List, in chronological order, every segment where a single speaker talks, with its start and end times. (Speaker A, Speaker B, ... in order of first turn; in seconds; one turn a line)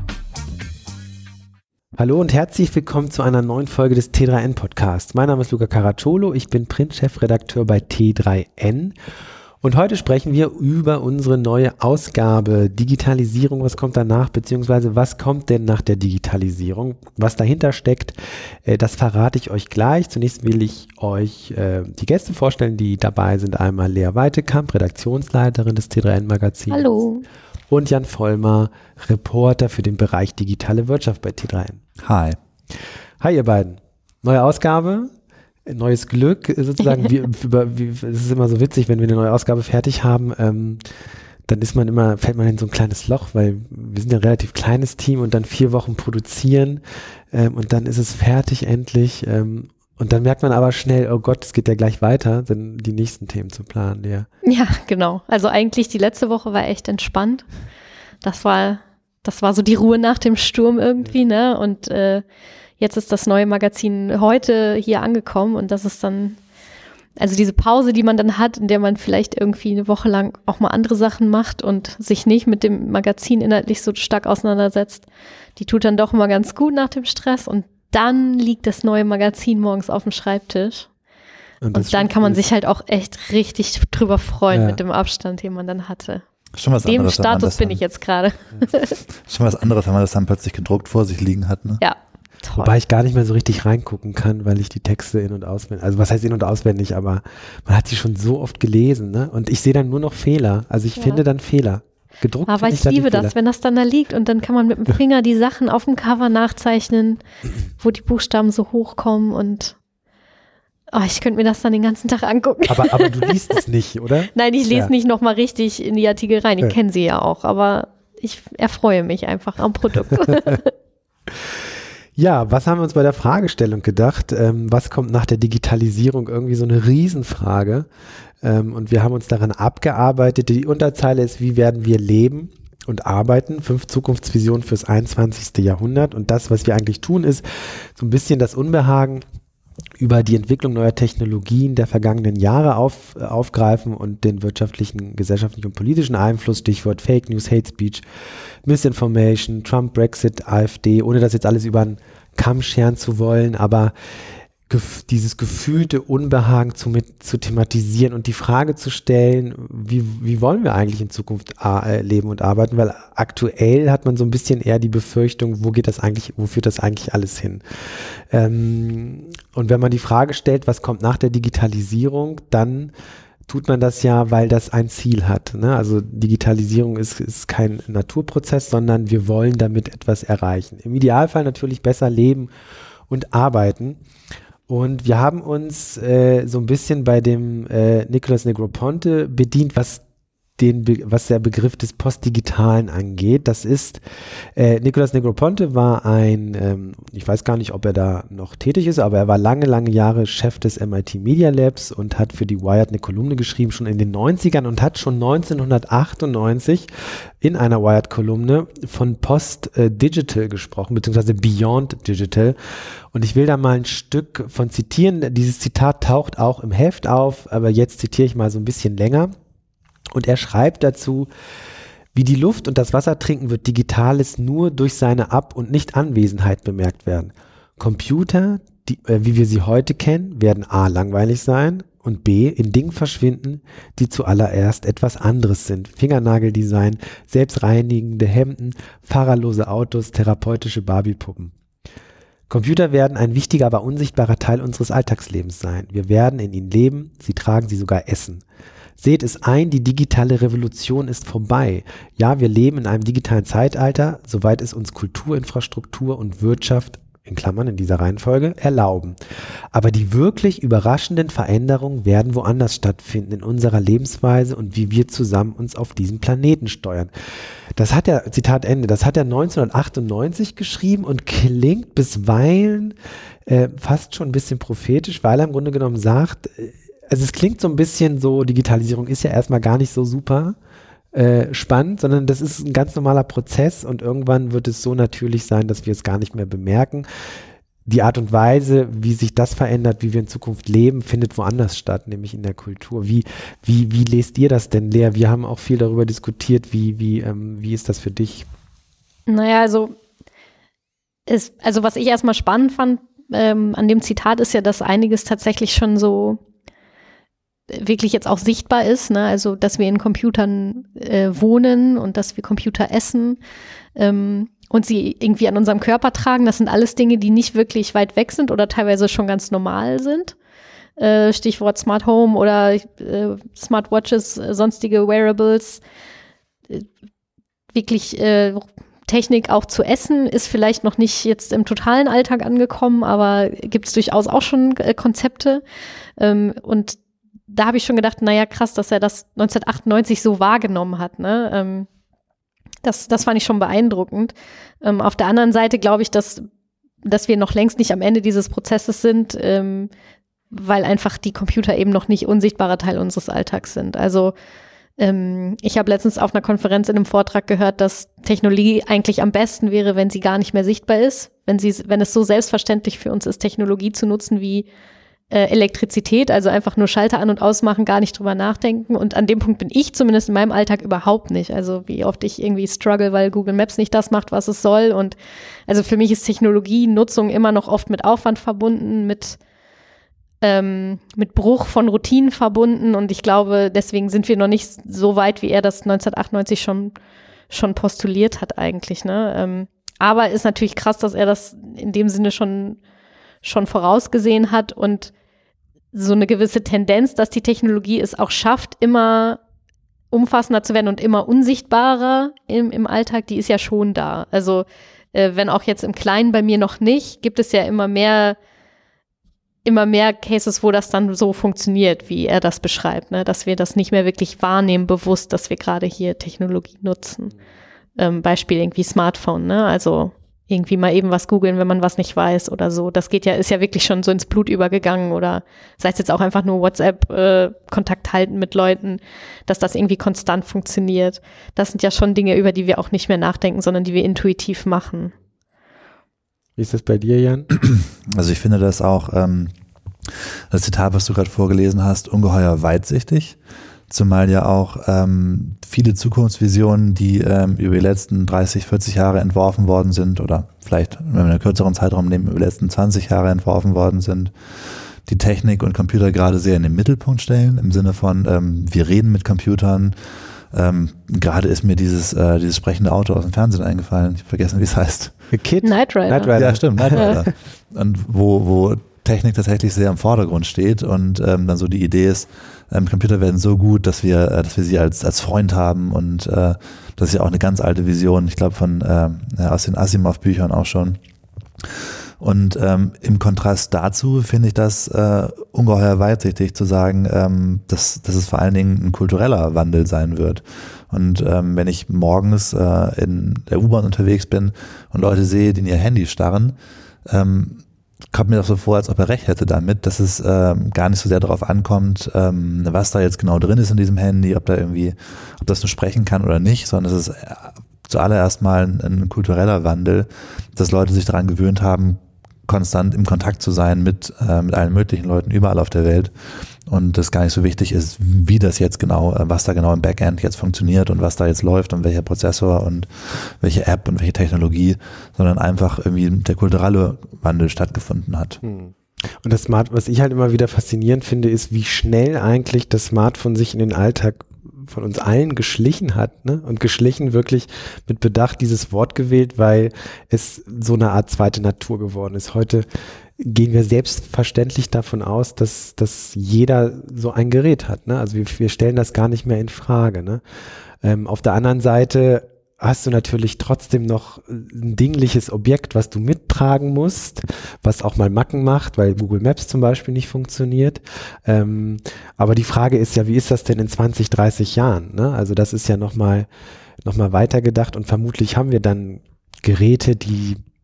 Speaker A: 2.0-8.9
Speaker A: 9.6-27.0
Speaker B: 26.7-27.2
Speaker A: 27.7-31.8
Speaker C: 32.0-32.4
Speaker A: 33.2-35.1
Speaker A: 35.7-40.8
Speaker A: 41.5-54.3
Speaker B: 54.5-57.5
Speaker B: 58.2-62.2
Speaker B: 62.8-66.4
Speaker B: 67.2-75.1
Speaker B: 75.6-80.9
Speaker A: 81.6-82.4
Speaker B: 81.7-86.2
Speaker A: 84.5-84.8
Speaker C: 86.5-87.8
Speaker B: 86.8-89.0
Speaker C: 89.3-91.8
Speaker B: 91.8-92.7
Speaker A: 92.6-103.3
Speaker B: 101.0-101.2
Speaker B: 102.5-107.2
Speaker B: 107.8-109.8
Speaker B: 110.9-113.6
Speaker A: 112.7-114.9
Speaker B: 114.3-120.7
Speaker A: 122.2-127.9
Speaker A: 128.4-139.2
Speaker A: 140.0-148.0
Speaker A: 148.6-153.9
Speaker A: 154.7-172.9
Speaker A: 173.5-182.5
Speaker A: 183.1-184.0
Speaker A: 184.7-190.0
Speaker A: 190.6-194.0
Speaker A: 194.6-212.6
Speaker A: 213.1-219.3
Speaker A: 220.1-221.3
Speaker A: 222.1-241.5
Speaker A: 242.5-248.4
Speaker A: 249.0-259.2
Speaker A: 259.7-267.1
Speaker A: 267.8-280.6
Speaker A: 281.1-287.1
Speaker A: 287.9-298.5
Speaker B: 299.3-299.9
Speaker B: 301.3-306.4
Speaker B: 307.7-313.4
Speaker B: 314.0-320.4
Speaker B: 321.0-325.8
Speaker B: 327.7-335.6
Speaker B: 336.2-341.9
Speaker B: 342.8-346.5
Speaker B: 347.1-349.9
Speaker B: 350.5-354.3
Speaker B: 355.0-364.7
Speaker B: 365.3-375.2
Speaker B: 375.7-379.4
Speaker B: 380.4-386.9
Speaker B: 387.5-392.8
Speaker B: 393.4-395.1
Speaker B: 395.9-399.4
Speaker B: 400.1-408.4
Speaker B: 409.6-417.4
Speaker B: 418.0-435.1
Speaker A: 436.6-437.5
Speaker C: 437.6-439.5
Speaker C: 440.5-443.4
Speaker C: 443.9-459.9
Speaker C: 460.5-465.1
Speaker A: 465.3-467.2
Speaker B: 465.6-466.4
Speaker C: 466.3-481.0
Speaker B: 466.9-467.2
Speaker C: 481.6-496.6
Speaker C: 497.1-516.1
Speaker C: 516.7-528.4
Speaker A: 528.4-542.7
Speaker A: 543.2-550.2
Speaker A: 550.8-566.3
Speaker A: 566.8-570.4